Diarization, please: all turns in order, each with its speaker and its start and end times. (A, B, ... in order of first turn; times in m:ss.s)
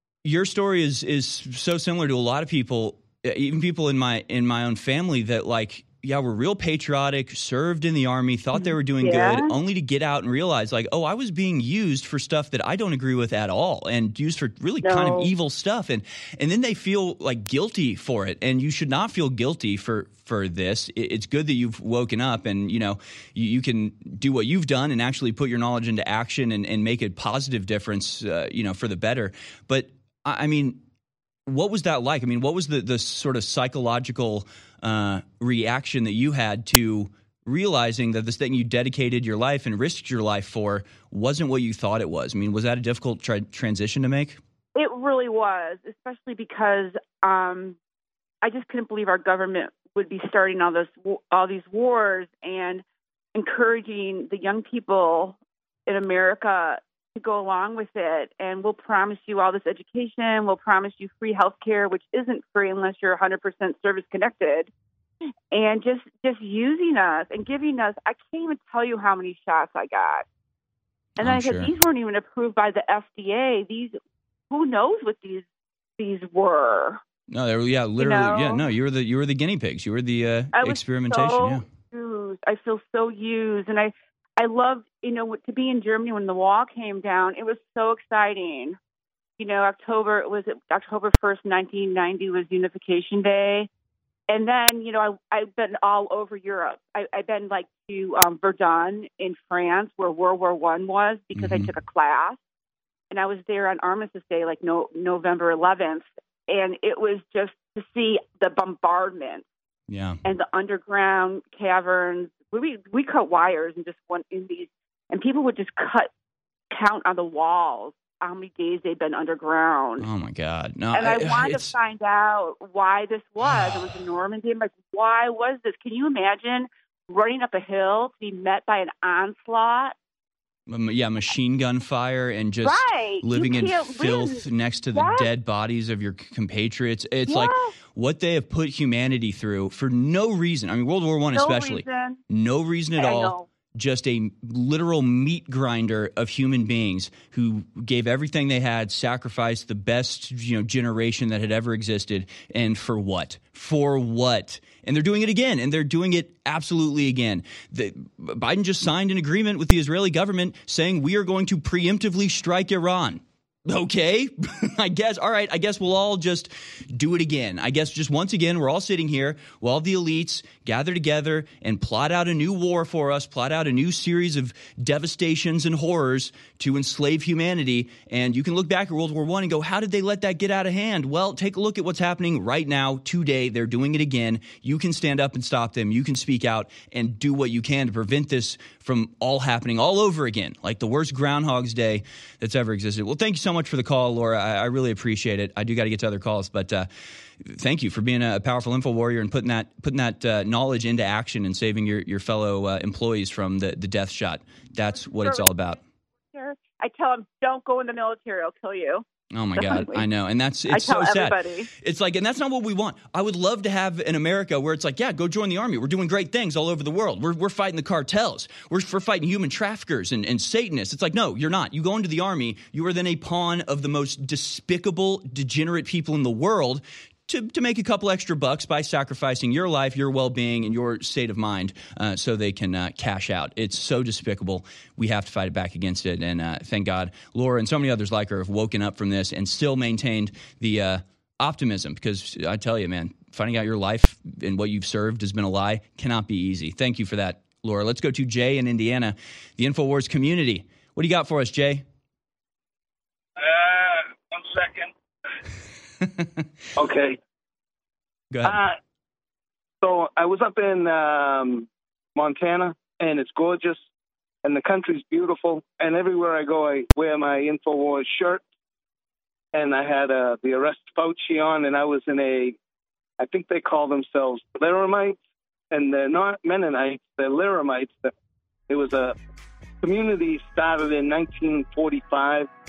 0:00.2-0:30.8 A
0:08.5-0:09.5 B
0:14.8-0:15.3 B
0:31.5-0:44.4 A
0:44.7-0:47.8 B
0:48.4-0:52.8 B
0:53.3-1:04.7 B
1:05.5-1:10.2 B
1:11.2-1:14.0 B
1:11.2-1:11.7 A
1:14.5-1:15.4 B
1:16.0-1:17.0 B
1:17.3-1:21.6 A
1:18.0-1:18.6 B
1:20.5-1:28.8 B
1:29.4-1:33.7 B
1:34.3-1:42.4 B
1:41.3-1:41.7 A
1:43.1-1:49.4 B
1:49.9-1:50.2 A
1:50.2-1:56.1 B
1:56.7-2:00.1 B
2:00.0-2:01.8 A
2:00.9-2:09.9 B
2:03.4-2:04.0 A
2:10.7-3:16.9 A
2:12.6-2:14.4 B
2:14.9-2:15.3 B
2:17.3-2:17.7 B
2:21.3-2:22.2 B
2:23.0-2:23.4 B
3:17.4-3:25.8 A
3:25.0-3:25.5 B
3:26.3-3:29.0 B
3:29.3-4:11.8 A
3:29.6-3:30.0 B
3:30.7-3:31.7 B
4:13.4-4:14.9 C
4:16.8-4:17.2 C
4:18.3-4:18.6 A
4:18.4-4:18.8 C
4:19.8-4:23.8 C
4:24.4-4:28.4 C
4:29.5-4:32.6 C
4:33.2-4:35.2 C
4:35.7-4:38.1 C
4:38.7-4:39.1 C
4:39.8-4:42.5 C